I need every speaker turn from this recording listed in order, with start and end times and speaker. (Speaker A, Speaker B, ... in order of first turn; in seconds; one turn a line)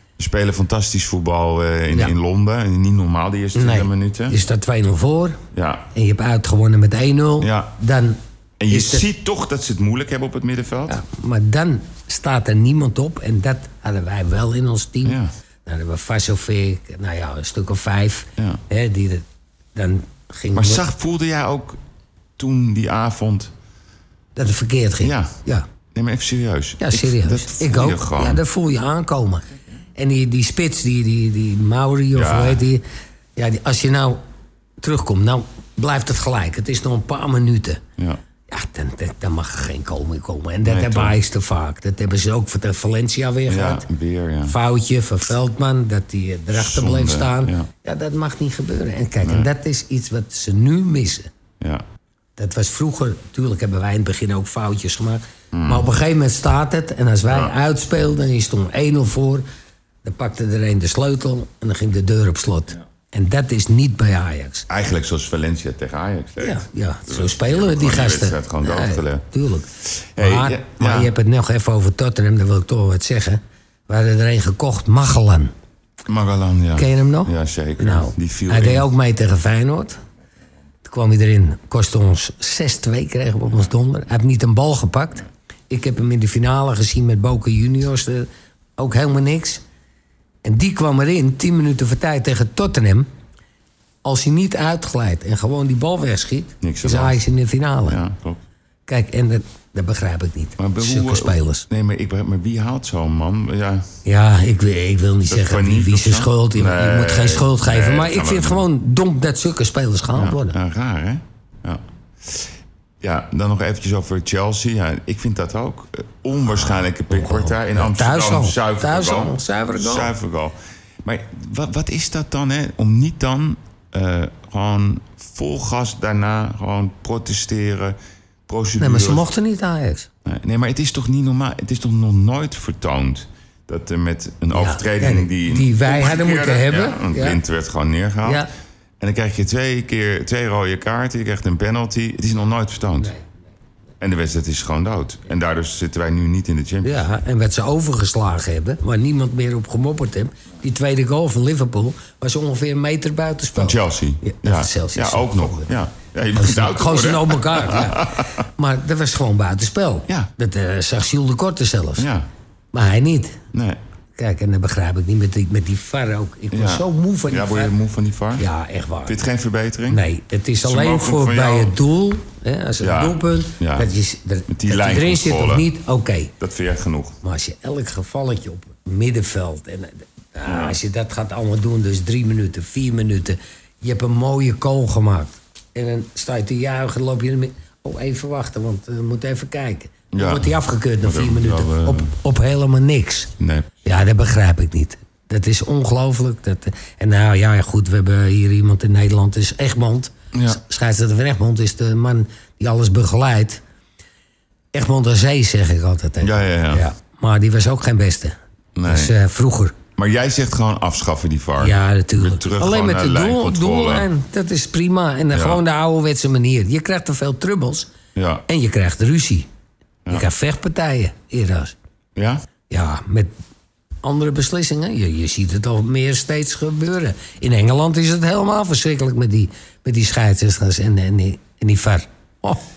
Speaker A: 0.2-4.3
Speaker B: 3.5-5.4
Speaker A: 5.5-5.9
Speaker B: 5.9-8.2
Speaker A: 7.4-7.7
Speaker A: 8.6-11.0
Speaker B: 8.7-9.1
Speaker B: 10.9-20.8
Speaker A: 20.5-21.8
Speaker A: 22.4-23.5
Speaker B: 24.4-25.6
Speaker A: 25.0-25.3
Speaker A: 25.9-28.4
Speaker B: 26.8-29.4
Speaker B: 29.9-32.8
Speaker A: 32.1-32.6
Speaker B: 33.4-34.2
Speaker B: 34.8-37.8
Speaker B: 38.5-43.9
Speaker A: 40.6-41.1
Speaker A: 43.5-44.6
Speaker B: 44.4-51.3
Speaker A: 46.5-47.7
Speaker A: 49.2-49.5
Speaker B: 52.4-59.4
Speaker A: 55.5-55.9
Speaker A: 57.3-57.5
Speaker B: 60.0-64.7
Speaker A: 64.7-69.2
Speaker B: 66.4-75.5
Speaker A: 69.8-71.1
Speaker A: 76.0-78.9
Speaker B: 76.8-80.0
Speaker B: 80.8-89.6
Speaker B: 90.4-93.1
Speaker B: 94.0-98.0
Speaker A: 96.6-97.2
Speaker A: 97.9-98.4
Speaker B: 98.9-101.7
Speaker A: 100.6-103.9
Speaker B: 104.0-110.6
Speaker A: 105.3-108.6
Speaker A: 110.1-128.0
Speaker B: 117.1-120.1
Speaker A: 128.5-129.2
Speaker B: 128.8-130.1
Speaker A: 130.2-138.4
Speaker B: 134.5-137.4
Speaker B: 138.2-138.5
Speaker A: 139.0-143.1
Speaker A: 144.0-147.0
Speaker B: 146.8-155.7
Speaker A: 153.6-158.4
Speaker B: 156.3-162.1
Speaker A: 162.0-162.3
Speaker B: 162.7-163.4
Speaker A: 163.5-163.8
Speaker B: 164.2-167.7
Speaker A: 166.5-168.4
Speaker B: 168.3-169.2
Speaker A: 169.1-170.0
Speaker B: 169.9-176.3
Speaker A: 170.6-171.7
Speaker A: 172.8-173.9
Speaker A: 174.5-175.7
Speaker A: 176.4-177.2
Speaker B: 177.2-193.3
Speaker A: 180.5-180.8
Speaker A: 190.1-192.1
Speaker A: 193.4-193.7
Speaker B: 193.8-203.6
Speaker A: 200.3-200.6
Speaker B: 204.7-209.8
Speaker A: 206.2-206.8
Speaker A: 208.8-209.1
Speaker A: 209.9-214.1
Speaker B: 211.6-217.9
Speaker A: 215.3-215.6
Speaker A: 218.1-218.4
Speaker B: 218.5-219.5
Speaker B: 220.1-221.7
Speaker A: 222.2-222.4
Speaker B: 222.7-223.3
Speaker B: 224.0-232.6